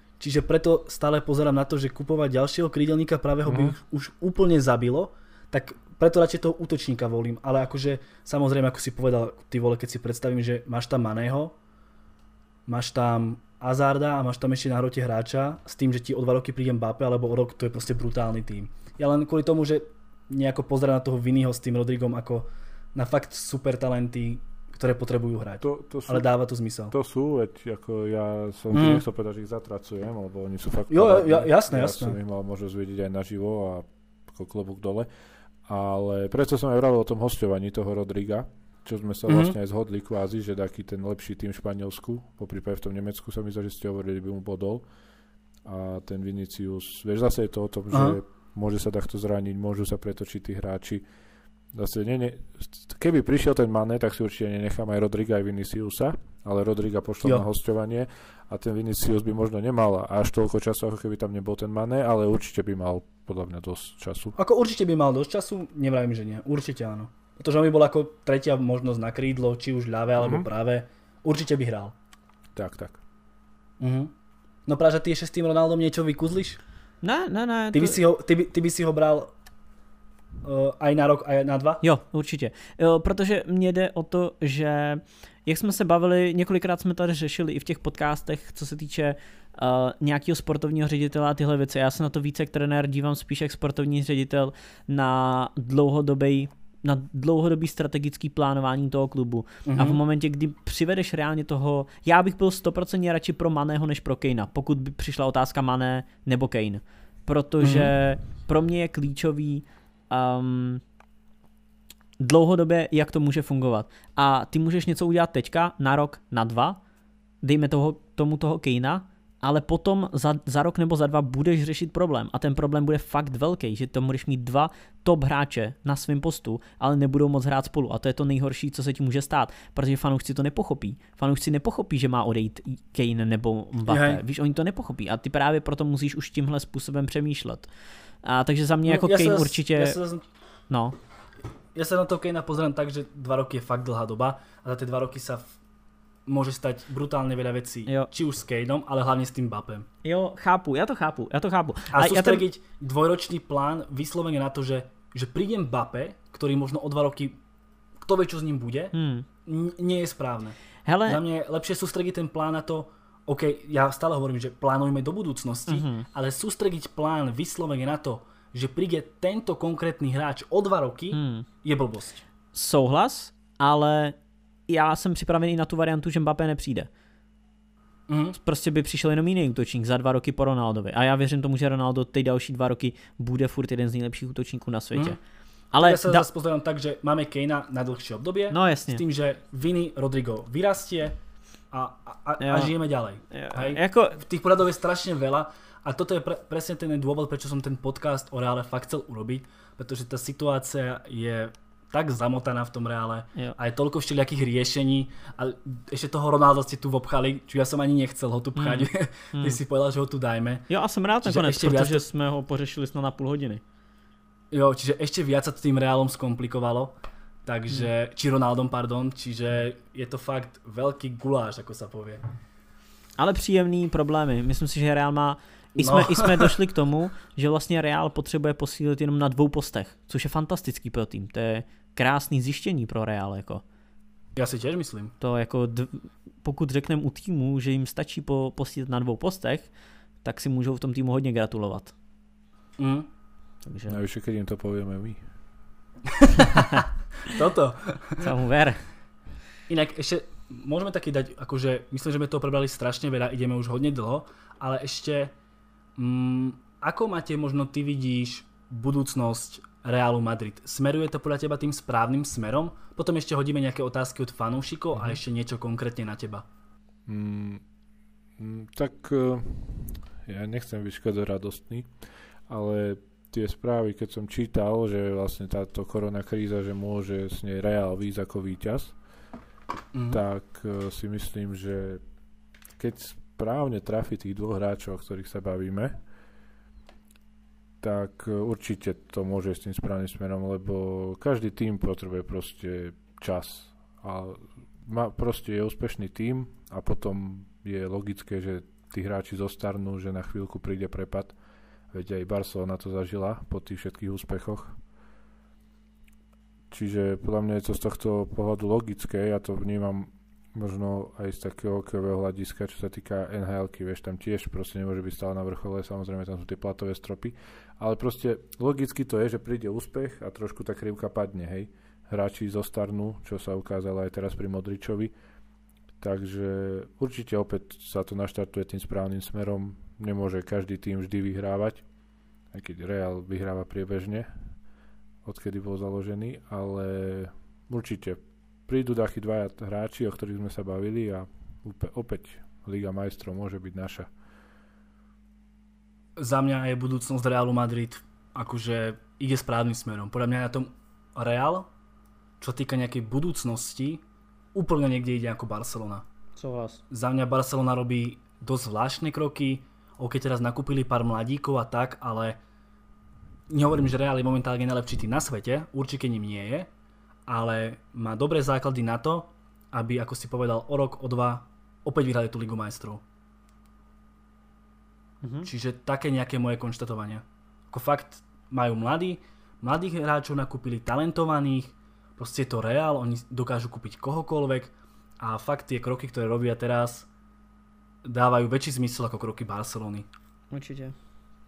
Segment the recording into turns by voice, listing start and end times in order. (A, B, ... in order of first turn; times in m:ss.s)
0:00.2-0:11.6 A
0:03.4-0:03.7 B
0:12.7-0:26.9 A
0:25.6-0:26.3 B
0:26.9-0:35.1 B
0:28.7-0:29.0 A
0:30.9-0:32.2 A
0:35.6-0:44.8 B
0:39.3-0:39.5 A
0:45.6-0:51.0 B
0:47.9-0:48.2 A
0:51.7-1:04.3 B
1:04.4-1:11.9 A
1:10.2-1:10.5 B
1:12.5-1:13.0 B
1:13.8-1:14.1 A
1:14.7-1:16.6 A
1:17.0-1:18.0 C
1:17.7-1:19.3 A
1:20.4-1:21.8 A
1:21.8-1:50.8 C
1:39.6-1:40.0 A
1:47.6-1:47.9 A
1:52.2-1:56.8 C
1:57.4-2:17.7 C
2:13.9-2:14.2 A
2:18.2-2:20.0 C
2:18.8-2:20.2 A
2:20.7-2:21.0 C
2:21.7-2:25.6 A
2:26.2-2:29.9 A
2:30.0-2:32.4 C
2:31.9-2:37.4 A
2:38.0-2:38.9 A
2:38.9-2:39.2 C
2:39.4-2:52.2 A
2:40.8-2:41.2 C
2:45.7-2:46.1 C
2:51.1-2:51.5 C
2:52.5-2:54.1 C
2:54.7-2:56.9 C
2:58.1-2:58.4 A
2:58.4-3:05.2 C
3:05.7-3:06.2 C
3:05.8-3:11.2 A
3:08.5-3:09.0 C
3:11.7-3:30.7 A
3:12.4-3:12.7 C
3:13.3-3:14.2 C
3:28.6-3:29.6 C
3:30.7-3:33.6 C
3:31.2-3:32.0 A
3:34.5-3:42.2 A
3:43.2-3:53.6 C
3:45.8-3:46.6 A
3:54.4-3:55.1 A
3:55.2-3:59.7 C
4:00.2-4:01.9 C
4:02.8-4:03.1 A
4:03.6-4:04.0 C
4:03.9-4:05.2 B
4:06.1-4:08.3 A
4:08.2-4:08.8 C
4:09.7-4:15.3 A
4:16.0-4:26.4 A
4:27.0-4:27.6 B
4:28.4-4:31.9 B
4:32.5-4:39.0 B
4:39.9-4:40.2 A
4:40.1-4:42.0 B
4:42.8-4:46.0 B
4:47.8-5:01.3 B
5:01.9-5:04.8 B
5:06.7-5:25.1 B
5:26.0-5:31.8 B
5:32.5-5:34.5 B
5:35.2-5:44.1 B
5:46.2-5:51.7 A
5:52.4-5:54.0 A
5:54.5-5:56.0 A
5:56.4-5:56.8 C
5:56.9-6:02.4 A
6:03.5-6:06.7 A
6:07.3-6:13.0 A
6:15.2-6:15.5 C
6:15.4-6:27.1 A
6:28.0-6:30.1 A
6:30.5-6:30.9 C